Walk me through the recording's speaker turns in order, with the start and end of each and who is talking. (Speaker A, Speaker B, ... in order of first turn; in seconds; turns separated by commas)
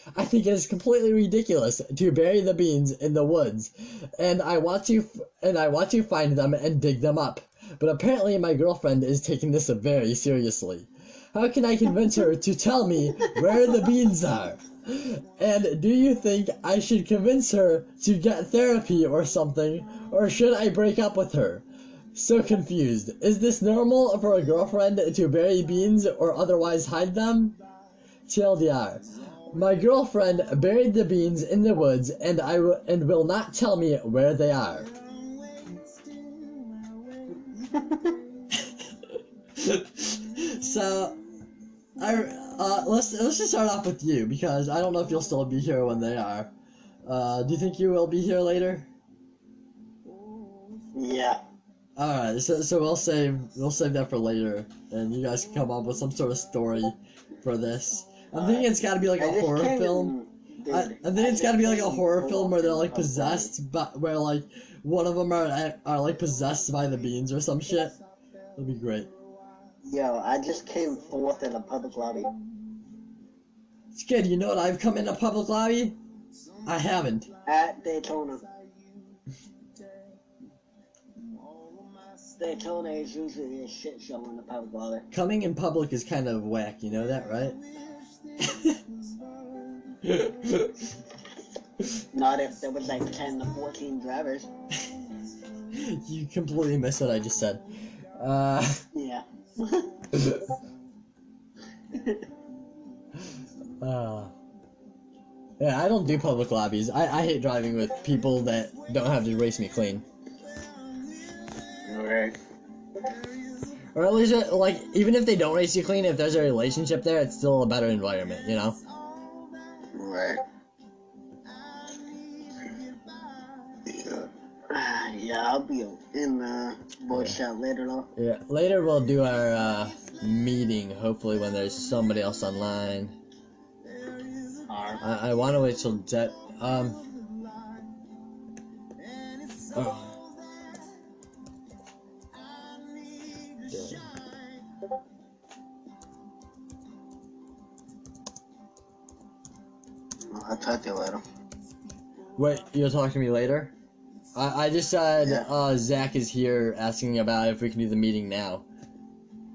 Speaker A: 0.1-27.6, Speaker A: 28.3-34.9, Speaker A: 39.6-41.2, Speaker A: 42.0-46.5, Speaker A: 47.0-48.9, Speaker B: 50.9-51.4, Speaker A: 52.0-60.1, Speaker B: 58.3-63.5, Speaker A: 60.7-68.0, Speaker A: 68.5-69.1, Speaker B: 69.8-72.3, Speaker A: 73.9-76.0, Speaker A: 76.6-77.3, Speaker B: 77.4-78.5, Speaker B: 82.4-85.0, Speaker A: 85.1-87.6, Speaker A: 90.0-90.7, Speaker B: 92.1-94.5, Speaker A: 95.7-97.6, Speaker A: 98.2-98.8, Speaker B: 98.9-99.9, Speaker A: 103.8-104.3, Speaker A: 105.6-110.0, Speaker B: 111.8-112.3, Speaker A: 113.9-118.8, Speaker B: 119.9-120.4, Speaker B: 123.9-128.1, Speaker A: 127.1-127.4, Speaker A: 128.2-133.1, Speaker B: 134.7-135.0, Speaker A: 135.0-137.0, Speaker A: 139.7-140.1, Speaker A: 143.7-144.1, Speaker B: 150.3-151.2, Speaker A: 152.4-153.7, Speaker A: 154.3-158.6